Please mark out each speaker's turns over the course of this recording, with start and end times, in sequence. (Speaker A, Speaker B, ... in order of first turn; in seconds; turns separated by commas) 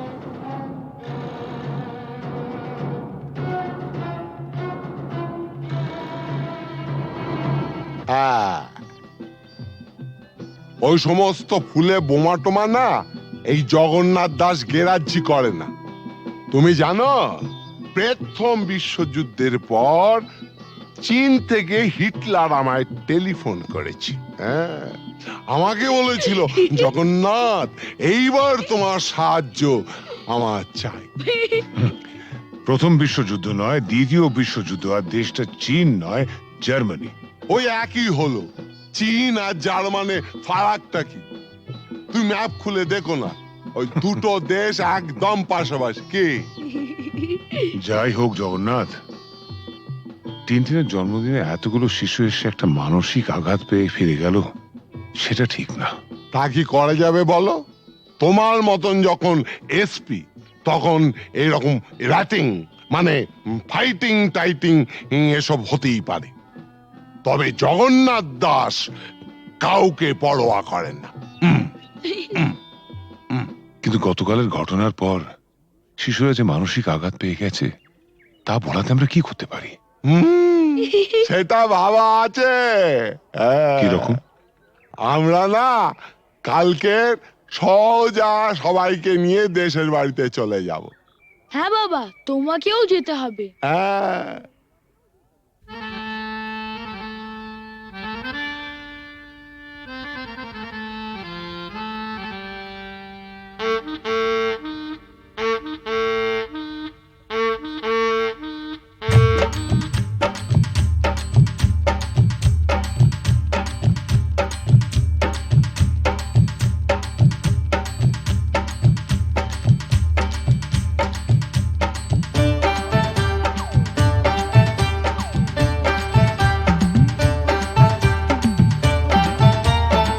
Speaker A: 8.1-8.7, Speaker A: 10.8-12.9, Speaker A: 13.5-15.7, Speaker A: 16.5-17.2, Speaker A: 17.9-20.2, Speaker A: 21.0-25.0, Speaker A: 25.5-31.1, Speaker B: 31.3-31.6, Speaker C: 31.8-32.0, Speaker C: 32.6-37.1, Speaker A: 37.5-41.2, Speaker A: 42.1-46.4, Speaker B: 46.8-47.6, Speaker C: 47.7-49.0, Speaker C: 50.5-54.5, Speaker C: 55.2-55.9, Speaker A: 56.3-57.6, Speaker A: 58.2-66.3, Speaker A: 67.2-68.8, Speaker A: 69.6-71.6, Speaker B: 72.1-72.4, Speaker C: 73.8-75.3, Speaker C: 76.0-77.7, Speaker C: 78.5-79.8, Speaker A: 80.1-84.2, Speaker C: 83.8-84.2, Speaker A: 85.0-85.7, Speaker A: 86.5-90.9, Speaker B: 91.5-93.5, Speaker A: 93.7-94.4